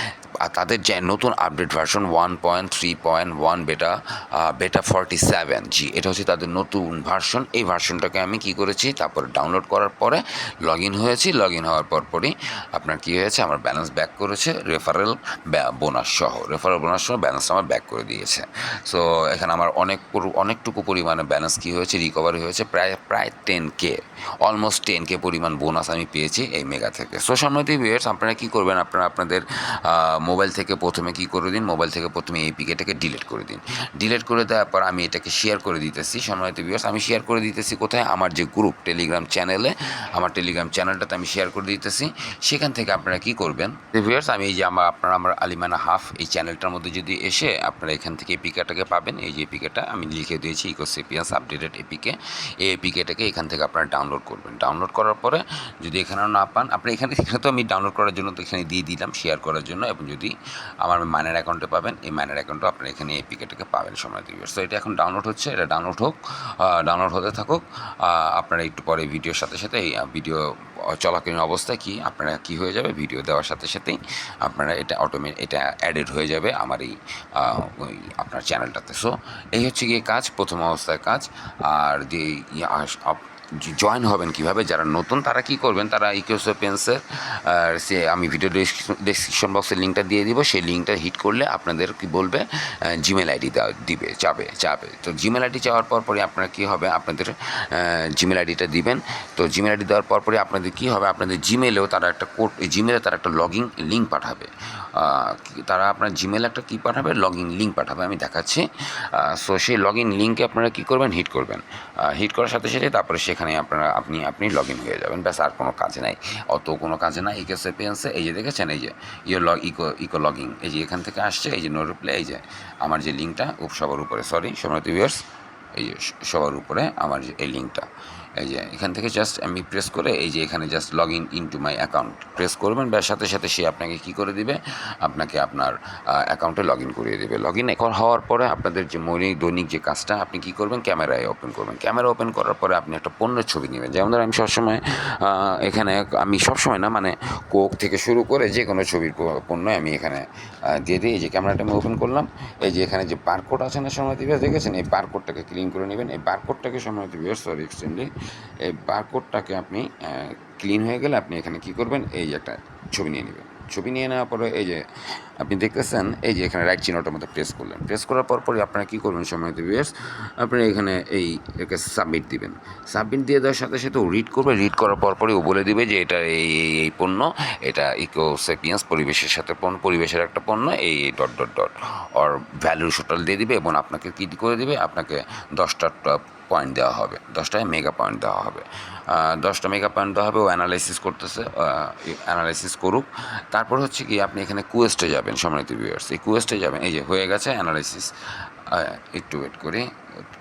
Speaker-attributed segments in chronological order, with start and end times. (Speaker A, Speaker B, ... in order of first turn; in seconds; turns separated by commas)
Speaker A: 0.4-198.1, Speaker A: 198.7-199.9